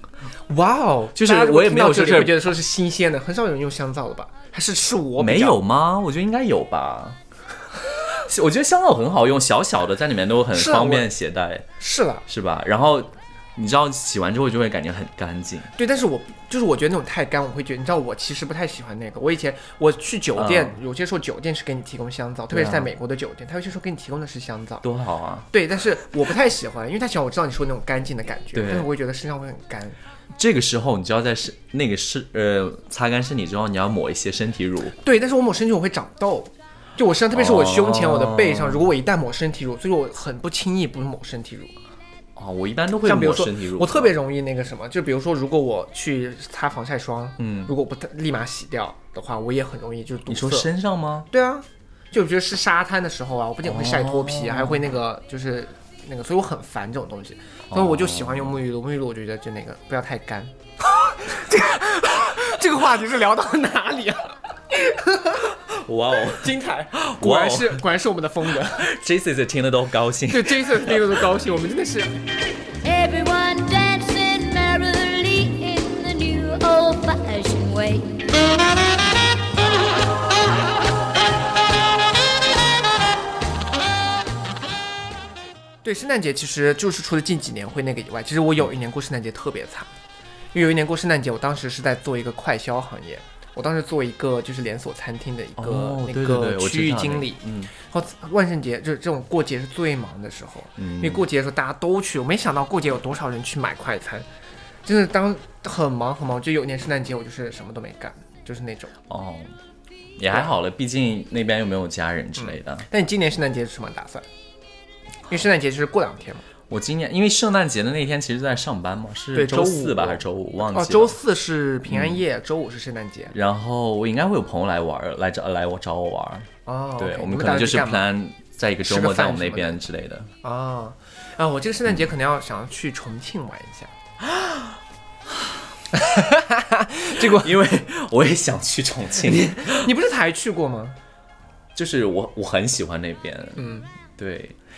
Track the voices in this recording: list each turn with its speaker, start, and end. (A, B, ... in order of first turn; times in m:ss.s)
0:00.5-0:05.6 A
0:01.1-0:02.5 B
0:05.2-0:07.2 B
0:08.0-0:11.6 B
0:10.5-0:11.1 A
0:11.8-0:12.2 A
0:12.3-0:15.7 B
0:15.7-0:24.8 A
0:20.4-0:20.8 B
0:22.5-0:22.9 B
0:24.8-0:25.5 B
0:25.5-0:30.0 A
0:28.5-0:28.9 B
0:30.3-0:35.0 B
0:35.0-0:41.7 A
0:37.3-0:38.9 B
0:42.4-0:44.1 B
0:43.0-0:50.7 A
0:47.4-0:47.7 B
0:50.3-0:51.3 B
0:51.3-1:05.5 A
0:53.6-0:54.8 B
0:57.7-0:58.6 B
1:05.6-1:07.8 B
1:06.3-1:08.9 A
1:08.7-1:11.3 B
1:10.3-1:12.1 A
1:12.8-1:18.4 C
1:25.8-1:29.9 A
1:30.5-1:44.2 A
1:35.6-1:37.7 B
1:40.8-1:41.2 B
1:44.8-1:48.9 A
1:49.1-1:49.5 B
1:50.2-1:52.8 B
1:52.4-1:54.2 A
1:55.3-1:56.4 A
1:56.7-2:01.2 B
1:59.3-2:03.3 A
2:01.9-2:02.2 B
2:03.3-2:10.3 B
2:06.6-2:08.0 A
2:08.8-2:09.8 A
2:10.4-2:13.9 A
2:15.9-2:17.5 A
2:17.1-2:19.9 B
2:19.2-2:21.0 A
2:21.7-2:24.6 B
2:23.6-2:23.9 A